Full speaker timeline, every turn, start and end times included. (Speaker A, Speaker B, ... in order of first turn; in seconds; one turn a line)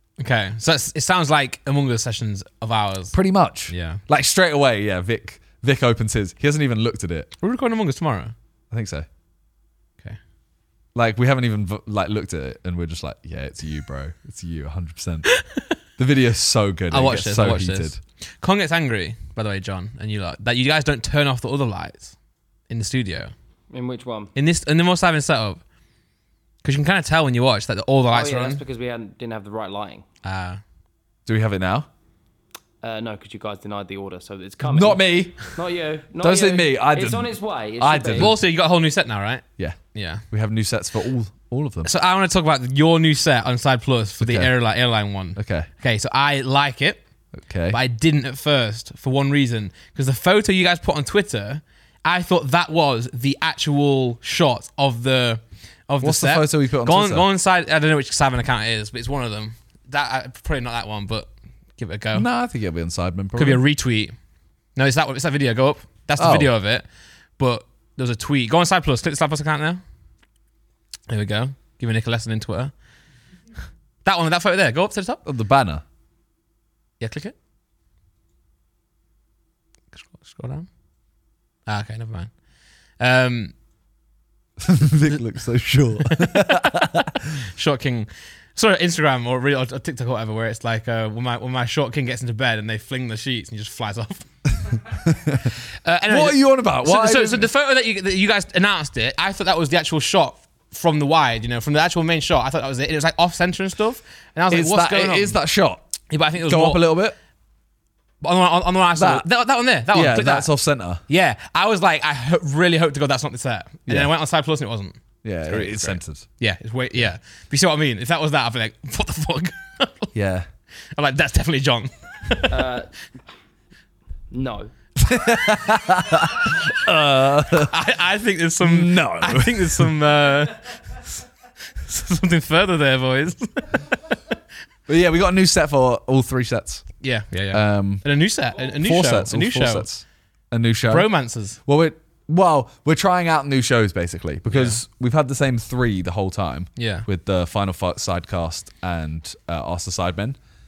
Speaker A: 0.2-3.1
Speaker B: 3.1-7.3
Speaker A: 3.7-4.0
Speaker A: 7.4-8.3
Speaker B: 8.7-9.1
Speaker B: 10.9-15.3
Speaker A: 15.3-15.6
Speaker B: 16.0-18.0
Speaker A: 16.9-22.1
Speaker A: 22.7-23.3
Speaker C: 23.7-24.3
Speaker A: 24.3-25.6
Speaker A: 26.6-28.6
Speaker C: 28.1-30.0
Speaker A: 30.2-30.6
Speaker B: 31.2-31.9
Speaker C: 32.8-38.3
Speaker B: 34.6-35.5
Speaker B: 36.2-38.4
Speaker A: 38.1-40.2
Speaker B: 40.3-41.9
Speaker A: 41.8-47.0
Speaker B: 44.2-44.5
Speaker B: 45.4-45.7
Speaker B: 47.4-47.8
Speaker A: 47.7-62.2
Speaker B: 56.0-57.3
Speaker B: 62.1-63.6
Speaker A: 63.3-64.1
Speaker A: 64.7-66.8
Speaker B: 66.2-66.5
Speaker A: 67.4-69.8
Speaker A: 71.1-72.7
Speaker A: 74.0-75.2
Speaker B: 75.2-75.8
Speaker A: 77.0-77.3
Speaker A: 79.9-80.7
Speaker A: 81.7-82.4
Speaker A: 83.0-83.5
Speaker B: 84.6-87.2
Speaker A: 86.0-94.8
Speaker B: 95.0-95.5
Speaker A: 95.6-105.4
Speaker B: 96.1-97.5
Speaker B: 104.5-105.8
Speaker A: 106.1-106.8
Speaker B: 106.4-107.2
Speaker A: 108.2-110.5
Speaker B: 109.0-109.2
Speaker B: 109.9-111.0
Speaker A: 111.1-120.1
Speaker B: 115.2-116.2
Speaker B: 120.1-120.5
Speaker A: 120.9-122.7
Speaker C: 122.5-122.9
Speaker C: 124.3-124.7
Speaker B: 125.0-127.7
Speaker A: 127.6-131.1
Speaker B: 128.6-129.9
Speaker A: 131.8-133.9
Speaker B: 134.9-137.0
Speaker A: 137.0-139.9
Speaker B: 137.5-138.0
Speaker B: 138.6-150.4
Speaker A: 140.9-141.6
Speaker A: 144.5-144.8
Speaker A: 146.8-147.1